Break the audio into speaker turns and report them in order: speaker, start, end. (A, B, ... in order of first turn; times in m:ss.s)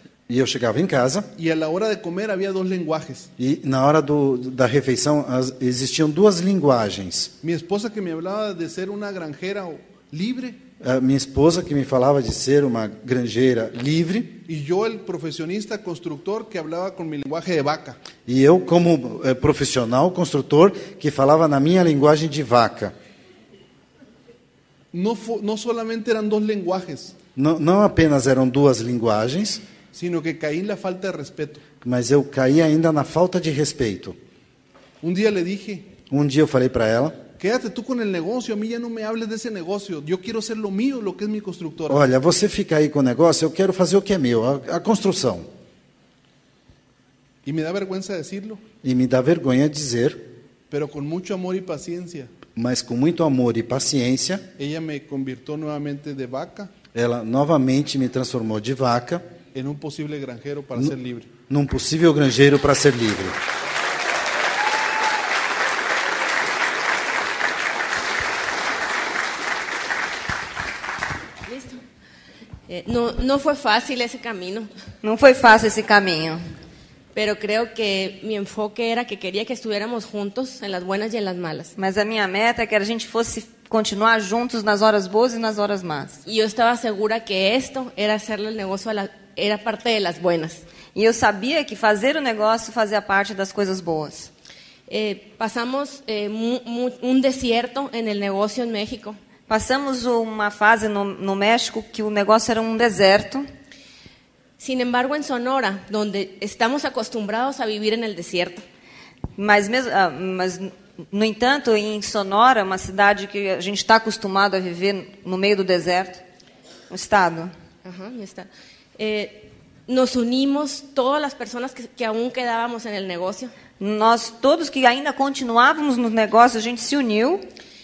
0:00.3-0:01.3 A
0:01.4-0:03.3 B
0:03.4-0:07.3 A
0:07.4-0:10.6 B
0:10.8-0:14.4 A
0:14.5-0:18.0 B
0:18.2-0:22.9 A
0:24.9-0:27.2 B
0:27.4-0:29.6 A
0:29.9-0:31.6 B
0:31.8-0:34.2 A
0:35.0-0:35.9 B
0:36.1-0:37.2 A
0:37.4-0:42.0 B
0:41.9-0:45.5 A
0:47.4-0:48.6 B
0:48.8-0:50.2 A
0:50.7-0:52.3 B
0:52.6-0:54.5 A
0:54.6-0:56.7 B
0:56.9-0:59.2 A
0:59.5-1:01.3 B
1:01.5-1:03.4 A
1:11.5-1:11.8 C
1:12.7-1:14.7 C
1:15.0-1:16.4 D
1:17.1-1:21.7 C
1:21.8-1:26.2 D
1:26.2-1:30.6 C
1:30.9-1:34.3 D
1:34.9-1:39.2 C
1:39.5-1:43.5 D
1:44.6-1:48.6 C
1:49.4-1:56.2 D
1:56.9-1:57.5 D
1:57.8-2:03.5 C
2:03.8-2:07.4 D